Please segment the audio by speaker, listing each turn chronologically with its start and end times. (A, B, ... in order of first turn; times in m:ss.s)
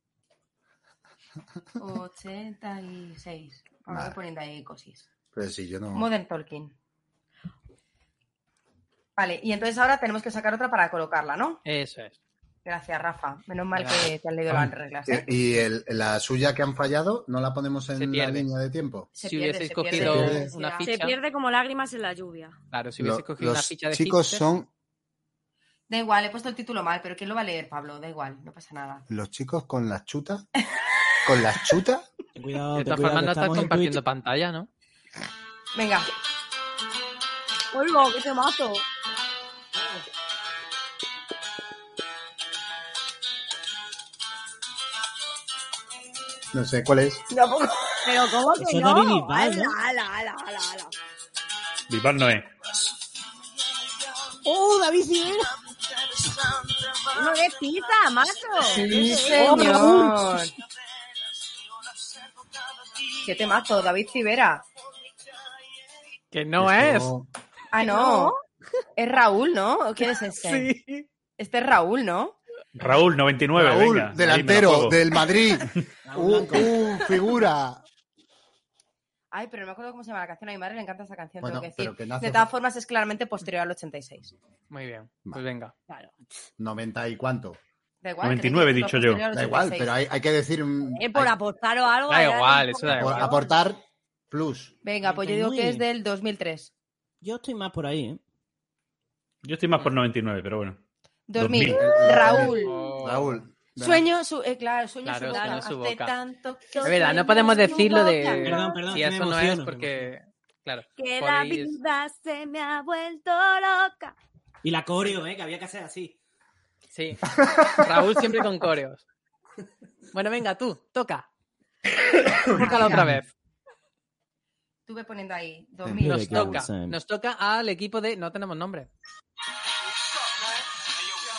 0:01.8-0:05.1 A
0:03.9-0:04.2 B
0:05.3-0:06.1 B
0:05.9-0:06.7 A
0:09.2-0:11.6 A
0:11.6-0:12.2 C
0:12.6-0:15.6 A
0:13.7-0:14.1 C
0:14.5-0:19.1 B
0:18.0-0:18.5 C
0:19.2-0:20.9 A
0:19.2-0:21.2 C
0:19.9-0:20.5 B
0:20.8-0:22.5 D
0:22.7-0:24.5 C
0:23.0-0:24.7 B
0:25.9-0:29.1 A
0:29.1-0:30.4 B
0:31.2-0:32.0 B
0:32.3-0:34.0 E
0:32.7-0:34.7 C
0:35.7-0:36.1 A
0:37.7-0:38.8 D
0:46.5-0:47.2 B
0:47.3-0:48.0 A
0:48.0-0:50.9 D
0:48.5-0:49.8 E
0:51.9-0:52.5 F
0:54.4-0:55.6 E
0:57.1-0:59.9 D
0:58.6-1:00.5 A
0:58.8-1:00.4 E
1:03.2-1:04.6 A
1:06.3-1:07.1 C
1:06.6-1:07.3 B
1:07.7-1:08.3 A
1:07.8-1:08.4 D
1:09.0-1:10.7 A
1:10.4-1:11.0 C
1:11.4-1:12.4 A
1:12.8-1:15.0 F
1:13.5-1:17.8 B
1:16.0-1:16.7 E
1:19.3-1:24.3 A
1:21.4-1:22.5 B
1:24.7-1:25.7 C
1:25.9-1:26.3 D
1:26.6-1:27.6 B
1:28.0-1:30.0 A
1:28.2-1:29.3 F
1:29.3-1:31.3 B
1:30.9-1:33.4 D
1:32.1-1:33.4 C
1:32.9-1:34.7 B
1:34.8-1:36.7 A
1:35.0-1:35.8 E
1:37.2-1:38.2 E
1:39.4-1:40.8 F
1:41.3-1:42.9 A
1:41.4-1:42.0 F
1:41.7-1:44.1 B
1:42.3-1:43.4 C
1:43.8-1:48.2 A
1:45.0-1:46.1 C
1:45.3-1:45.7 D
1:46.7-1:48.9 D
1:46.8-1:51.8 C
1:48.4-1:50.1 E
1:51.0-1:54.2 D
1:54.6-1:56.2 E
1:56.9-1:59.0 C
2:00.1-2:01.3 C
2:02.5-2:03.3 C
2:02.6-2:03.1 A
2:04.9-2:06.6 A
2:05.8-2:06.5 B
2:05.9-2:07.0 E
2:06.2-2:08.9 C